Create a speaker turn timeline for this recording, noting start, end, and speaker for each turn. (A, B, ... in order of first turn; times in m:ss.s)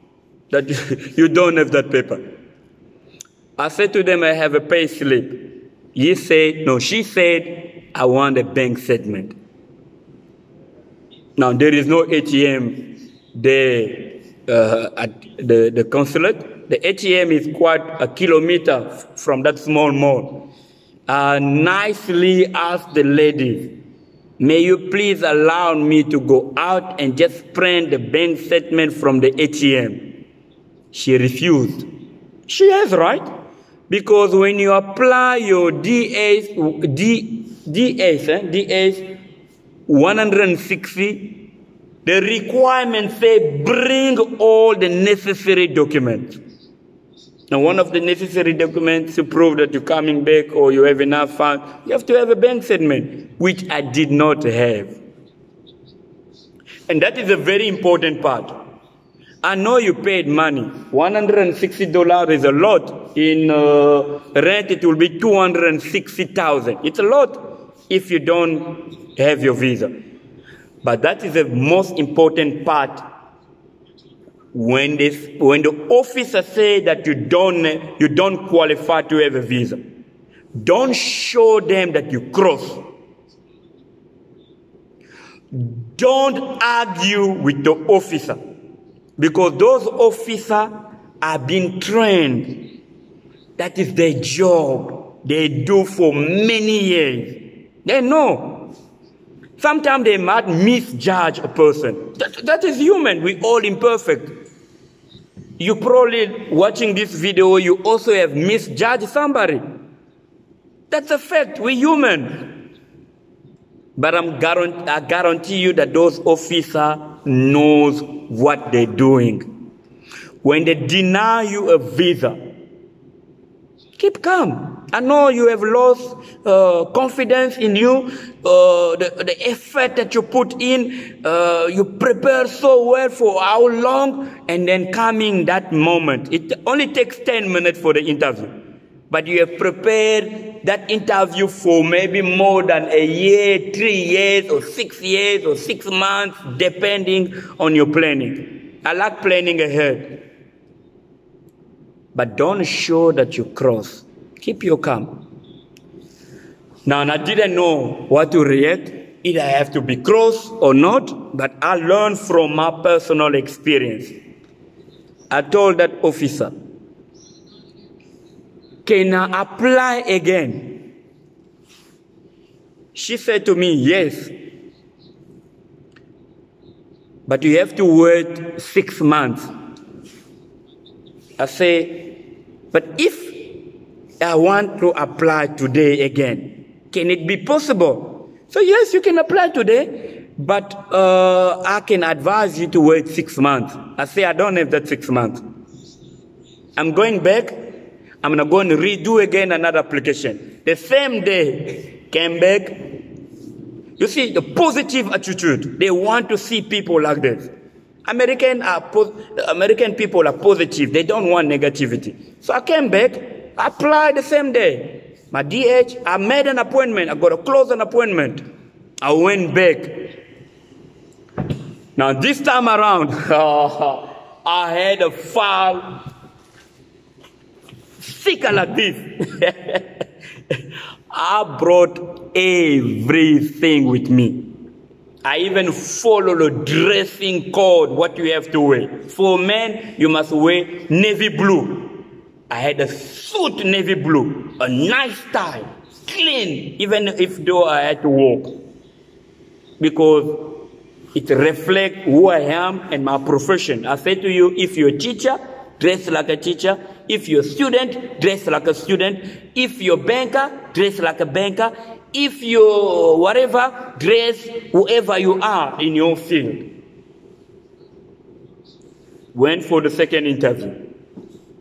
0:00.5-0:02.2 A
0:03.6-0:09.4 A
0:11.4-0:20.5 A
0:21.1-0:23.8 A
0:24.4-0:30.2 A
0:30.9-0:31.9 A
0:32.5-0:33.3 A
0:33.9-0:39.1 A
0:39.9-0:41.5 A
0:42.0-0:46.4 A
0:47.5-0:55.0 A
0:56.9-0:58.6 A
0:59.4-1:09.9 A
1:10.8-1:13.0 A
1:14.5-1:19.8 A
1:20.5-1:22.9 A
1:25.5-1:28.4 A
1:29.2-1:32.8 A
1:33.6-1:38.7 A
1:39.6-1:44.4 A
1:45.6-1:49.6 A
1:50.9-1:52.6 A
1:54.0-1:59.5 A
2:00.4-2:02.4 A
2:04.0-2:18.5 A
2:19.1-2:30.2 A
2:32.1-2:35.2 A
2:36.9-2:44.2 A
2:45.3-2:46.5 A
2:48.9-2:50.8 A
2:52.9-2:54.3 A
2:57.3-2:59.5 A
3:01.4-3:02.2 A
3:02.7-3:03.6 A
3:04.2-3:15.4 A
3:16.8-3:17.6 A
3:18.2-3:22.9 A
3:24.0-3:27.5 A
3:28.1-3:38.4 A
3:39.0-3:40.2 A
3:42.0-3:46.0 A
3:48.0-3:49.9 A
3:51.1-3:54.5 A
3:55.2-4:01.9 A
4:02.5-4:08.6 A
4:09.8-4:26.7 A
4:29.3-4:30.8 A